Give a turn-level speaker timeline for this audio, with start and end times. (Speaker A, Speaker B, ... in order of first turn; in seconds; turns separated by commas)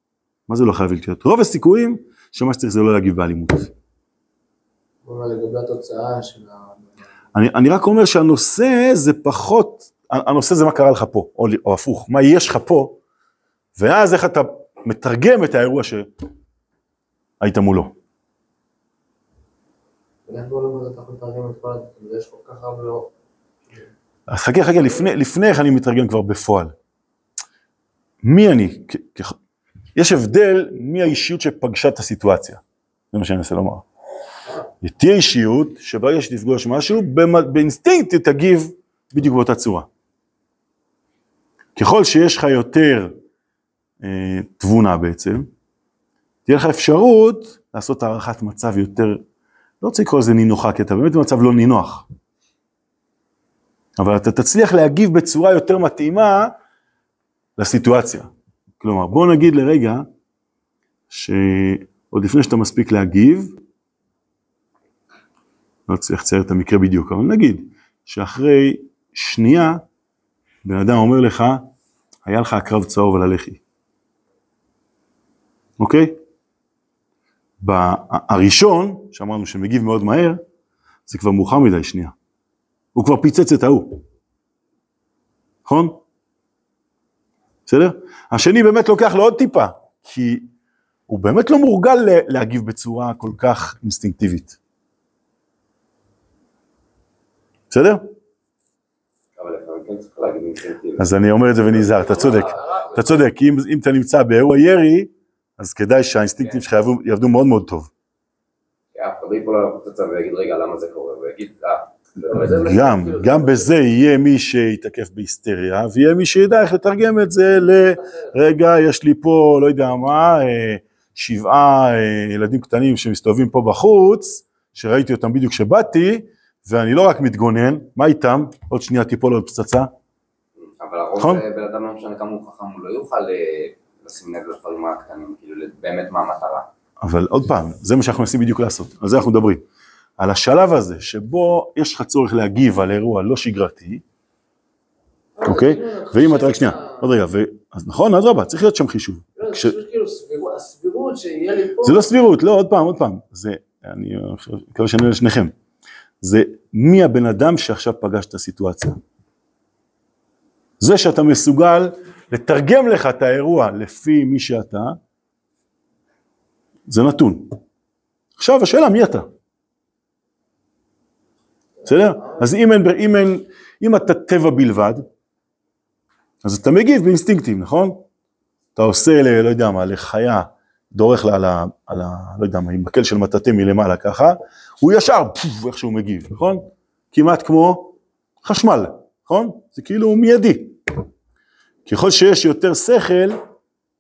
Speaker A: 0.5-3.7, Speaker B: 5.0-7.0, Speaker A: 7.3-13.0, Speaker A: 13.8-16.1, Speaker A: 17.4-17.9, Speaker B: 20.3-23.1, Speaker A: 24.3-26.8, Speaker A: 28.2-29.4, Speaker A: 29.9-33.9, Speaker A: 34.8-39.9, Speaker A: 41.8-43.1, Speaker A: 44.0-45.5, Speaker A: 46.5-49.2, Speaker A: 49.8-52.1, Speaker A: 54.0-56.5, Speaker A: 57.6-60.1, Speaker A: 61.1-63.6, Speaker A: 65.9-69.8, Speaker A: 70.6-71.7, Speaker A: 72.2-73.6, Speaker A: 75.8-76.2, Speaker A: 77.6-80.4, Speaker A: 81.1-82.1, Speaker A: 83.0-84.0, Speaker A: 85.7-86.0, Speaker A: 87.7-90.5, Speaker A: 91.1-94.6, Speaker A: 97.7-98.1, Speaker C: 99.4-101.1, Speaker A: 101.0-107.9, Speaker C: 101.8-103.0, Speaker B: 102.0-103.2, Speaker C: 108.9-112.5, Speaker B: 112.2-113.7, Speaker A: 112.4-129.9, Speaker B: 117.8-118.3, Speaker C: 130.6-136.7, Speaker A: 131.2-131.4, Speaker A: 137.0-139.6, Speaker A: 140.2-144.0, Speaker B: 145.4-147.1, Speaker A: 145.4-149.8, Speaker B: 149.4-152.3, Speaker A: 151.8-155.5, Speaker A: 156.2-159.0, Speaker A: 160.8-165.0, Speaker A: 166.9-167.5, Speaker A: 168.4-169.3, Speaker B: 171.8-172.5, Speaker A: 171.9-175.1, Speaker A: 176.4-178.0, Speaker A: 178.8-190.8, Speaker A: 191.9-193.4